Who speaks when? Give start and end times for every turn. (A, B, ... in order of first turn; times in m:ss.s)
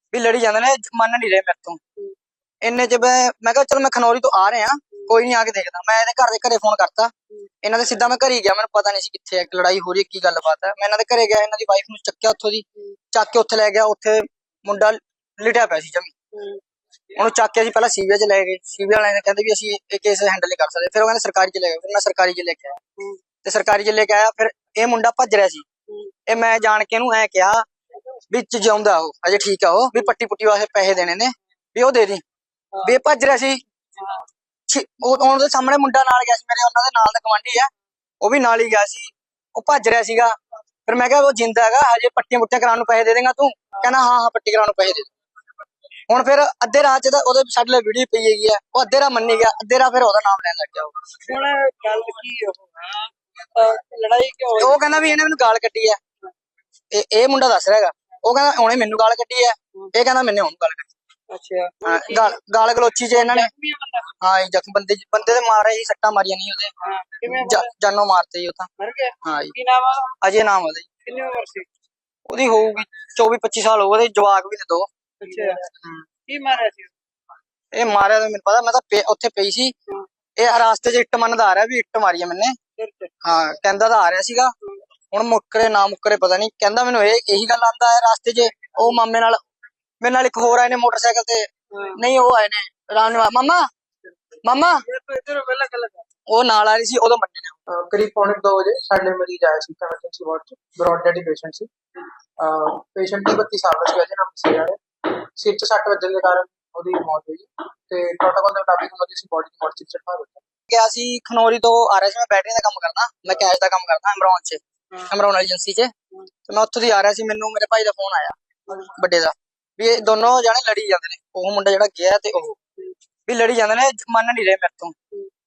0:00.1-0:01.8 A
0:02.6-0:07.1 A
0:07.6-0:16.1 A
0:16.3-0:16.6 B
0:17.2-0:22.8 A
0:23.4-0:25.6 A
0:25.9-0:26.1 B
0:26.3-0:27.6 A
0:28.3-0:32.2 A
0:32.8-0:33.6 A
0:34.0-0:34.2 B
0:34.7-0:37.7 A
0:38.2-0:40.3 A
0:40.9-0:45.1 A
0:46.1-0:50.9 A
0:51.2-0:55.2 B
0:54.6-0:56.0 A
0:56.9-1:00.9 A
1:01.3-1:04.2 B
1:01.8-1:03.5 A
1:04.2-1:06.7 A
1:06.8-1:07.7 B
1:07.2-1:08.7 A
1:08.8-1:10.1 B
1:09.2-1:09.5 A
1:10.2-1:10.9 A
1:11.0-1:11.7 B
1:12.3-1:14.9 A
1:15.2-1:15.6 B
1:16.3-1:16.9 B
1:17.7-1:19.7 A
1:20.4-1:22.6 A
1:22.8-1:23.1 B
1:23.2-1:24.5 A
1:25.1-1:29.4 A
1:30.0-1:33.6 A
1:31.7-1:32.0 B
1:34.4-1:34.8 A
1:34.8-1:36.0 B
1:36.3-1:37.6 A
1:37.7-1:41.7 C
1:42.4-1:44.8 C
1:45.4-1:50.4 C
1:50.7-1:55.9 A
1:56.5-2:02.6 A
2:03.3-2:04.9 A